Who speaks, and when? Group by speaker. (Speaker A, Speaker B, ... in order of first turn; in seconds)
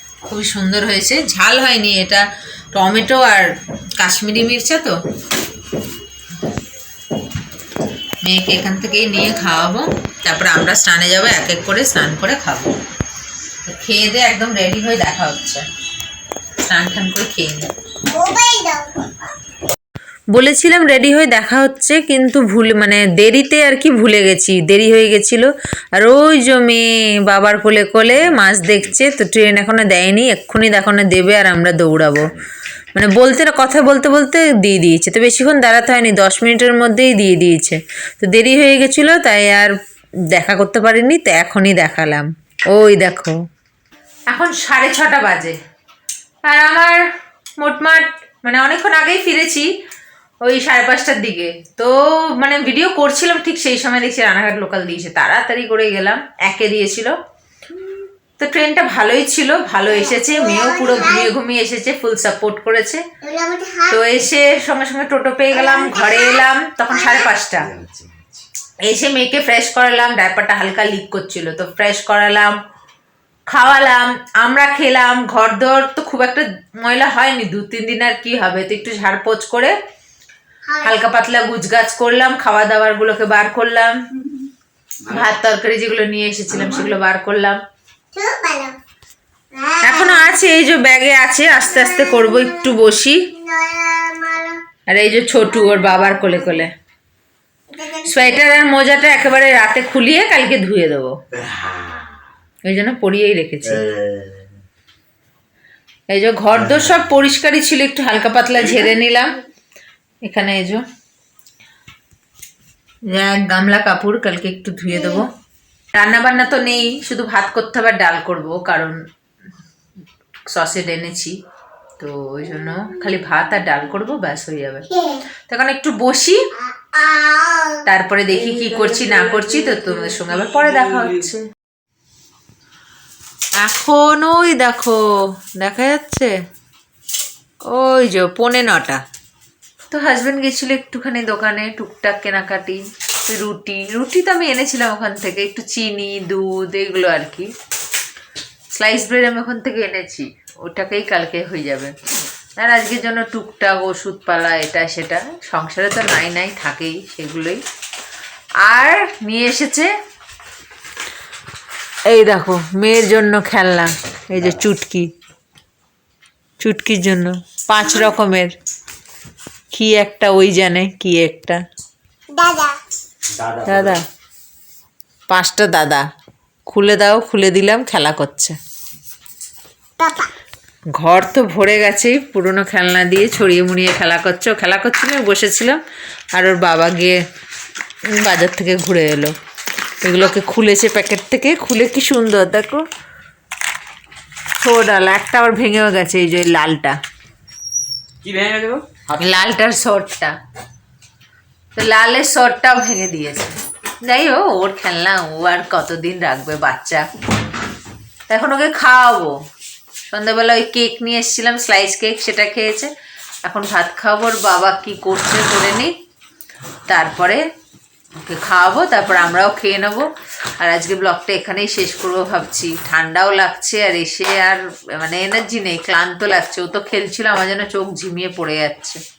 Speaker A: 0.2-5.0, 8.2-12.7, 13.6-15.6, 16.7-17.6, 20.3-32.3, 32.9-39.7, 40.3-43.4, 44.3-45.6, 46.5-47.0, 47.6-49.7, 50.4-57.1, 58.4-63.0, 63.9-67.7, 68.9-72.5, 73.5-79.7, 80.8-84.0, 85.1-87.6, 89.8-93.2, 94.9-96.7, 98.0-101.1, 102.6-103.8, 106.1-109.4, 110.2-110.8, 113.1-115.3, 115.9-119.0, 120.5-121.3, 122.0-124.9, 125.5-126.4, 127.8-131.4, 133.6-135.0, 135.6-136.3, 137.7-139.0, 139.9-147.5, 148.7-151.9, 152.6-157.6, 158.6-159.9, 162.1-165.1, 166.6-168.5, 169.7-171.6, 173.6-174.0, 175.3-176.1, 176.7-178.6, 181.0-185.8, 186.3-187.2, 188.2-189.3, 190.0-192.8, 194.6-197.0, 199.2-200.3, 201.8-207.1, 208.3-209.3, 210.1-212.9, 213.4-215.9, 216.9-217.4, 218.2-220.1, 220.6-229.0
Speaker B: 18.1-19.1, 59.9-61.3, 63.2-64.0, 65.5-67.3, 80.7-81.0, 88.1-88.8, 89.5-90.3, 91.6-92.8, 93.3-94.6, 95.7-96.3, 97.7-98.7, 124.9-125.2, 126.7-127.8, 172.3-172.8, 180.0-180.3
Speaker C: 67.7-68.3, 86.5-86.9, 128.5-131.1, 173.4-174.0, 198.2-199.4